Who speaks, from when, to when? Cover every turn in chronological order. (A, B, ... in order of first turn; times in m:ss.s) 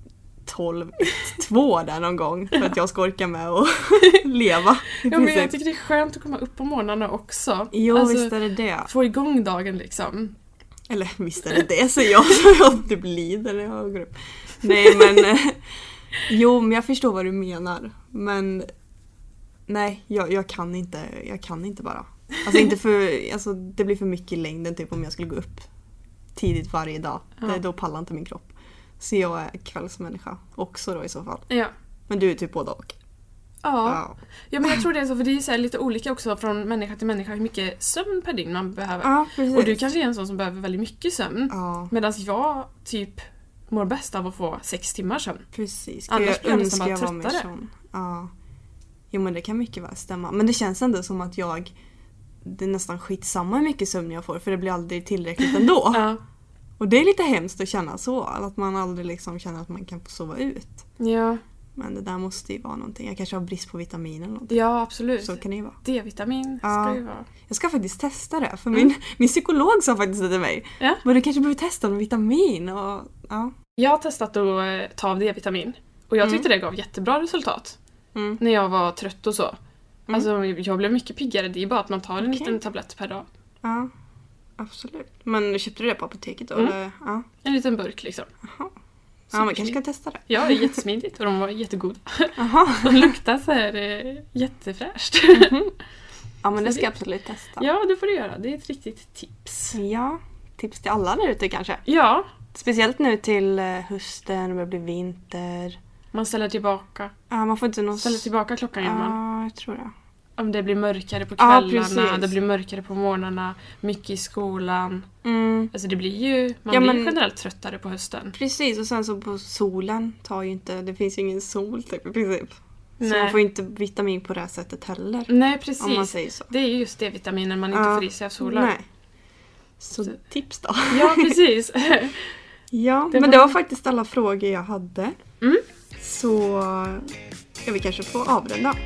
0:00.4-0:05.5 A
0:05.0-0:10.3 B
0:07.7-0:08.9 A
0:10.9-0:15.6 A
0:16.3-0:18.7 A
0:19.7-0:25.7 A
0:26.4-0:31.5 A
0:32.1-0:32.9 A
0:33.6-0:45.4 B
0:33.8-0:34.1 A
0:39.0-0:39.8 A
0:41.5-0:41.9 A
0:45.5-0:48.3 A
0:46.1-0:47.5 B
0:49.1-0:51.7 A
0:52.4-0:56.1 A
0:55.9-0:56.2 B
0:56.8-1:00.8 A
1:01.0-1:01.4 B
1:01.8-1:04.6 A
1:04.5-1:07.3 B
1:05.2-1:05.8 A
1:06.6-1:13.5 A
1:13.8-1:17.8 B
1:16.2-1:16.5 A
1:18.1-1:18.4 A
1:18.4-1:19.6 B
1:20.1-1:23.3 B
1:22.2-1:22.6 A
1:23.6-1:23.9 A
1:24.6-1:27.2 A
1:27.4-1:28.3 B
1:28.4-1:28.7 A
1:29.3-1:30.8 A
1:29.3-1:35.6 B
1:32.4-1:33.2 A
1:35.3-1:35.7 A
1:36.4-1:37.7 A
1:37.6-1:39.8 B
1:39.7-1:41.8 A
1:41.8-1:42.2 B
1:42.5-1:45.8 A
1:46.1-1:47.1 B
1:47.3-1:48.3 A
1:48.0-1:49.2 B
1:48.8-1:49.9 A
1:50.4-1:55.1 B
1:51.4-1:52.4 A
1:55.2-1:55.7 A
1:55.7-1:58.3 B
1:56.7-1:57.2 A
1:58.3-2:06.5 A
2:03.0-2:03.4 B
2:05.3-2:08.7 B
2:07.7-2:08.8 A
2:09.8-2:11.4 A
2:10.9-2:12.2 B
2:12.7-2:15.1 A
2:13.1-2:13.5 B
2:16.0-2:17.0 A
2:17.6-2:18.8 A